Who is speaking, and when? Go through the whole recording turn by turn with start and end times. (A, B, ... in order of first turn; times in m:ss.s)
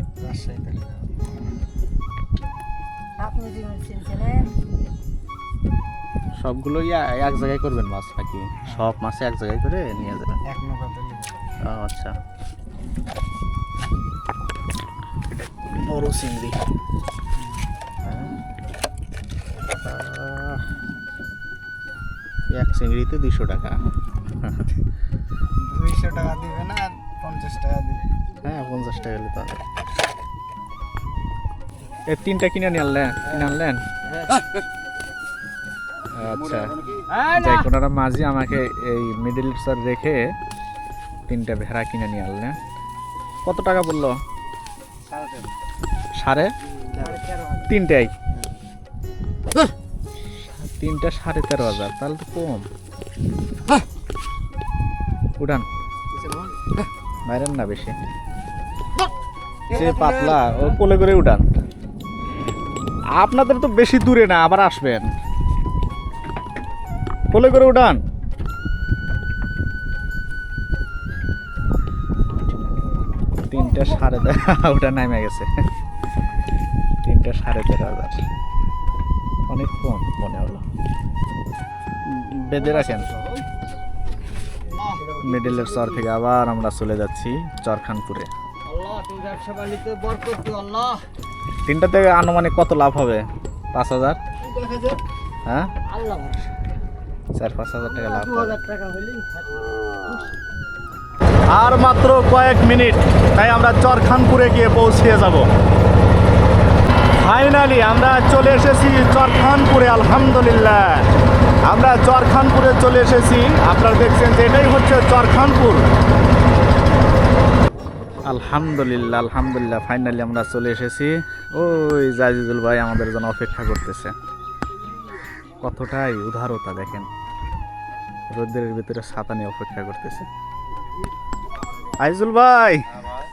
0:00.2-0:01.1 A
0:03.2-0:04.5 B
0:06.4-0:10.4 C
0:10.5-0:11.4 A
0:11.6-0:12.1 C
0:15.7-0:16.6 C
0:18.0-0:18.3 C
0:19.6-0:20.7 C
0:22.5-0:23.8 C
0:24.4-0:24.7 C
0:25.6-0:28.2 A
0:28.4-0:29.6 C
0:32.1-0:33.8 C
0:36.2-0:36.7 C
0:36.2-0:37.1 A
0:37.1-0:37.7 B
0:37.3-0:40.3 C
0:41.3-0:42.6 C
0:43.4-0:44.2 C
0:46.2-0:46.5 C
0:46.9-0:47.2 A
0:47.0-0:47.7 B
0:47.7-0:48.1 C
0:50.4-0:52.7 C
0:55.4-0:55.7 C
0:56.1-0:56.6 A
0:57.3-0:57.9 C
0:59.7-1:01.4 C
0:59.7-1:00.3 B
1:03.1-1:05.1 C
1:07.3-1:08.0 C
1:13.5-1:15.5 C
1:17.0-1:18.2 C
1:19.5-1:20.6 C
1:22.0-1:23.1 C
1:22.6-1:23.4 A
1:24.6-1:25.9 A
1:25.2-1:28.3 C
1:28.7-1:31.0 B
1:31.7-1:34.2 C
1:34.4-1:35.0 A
1:35.4-1:35.7 C
1:35.9-1:36.4 B
1:37.3-1:38.6 C
1:37.9-1:40.2 B
1:41.5-1:45.5 C
1:47.2-1:51.1 C
1:51.7-1:55.9 C
1:58.3-2:04.1 C
2:05.6-2:07.1 C
2:08.3-2:10.3 C
2:12.0-2:12.8 C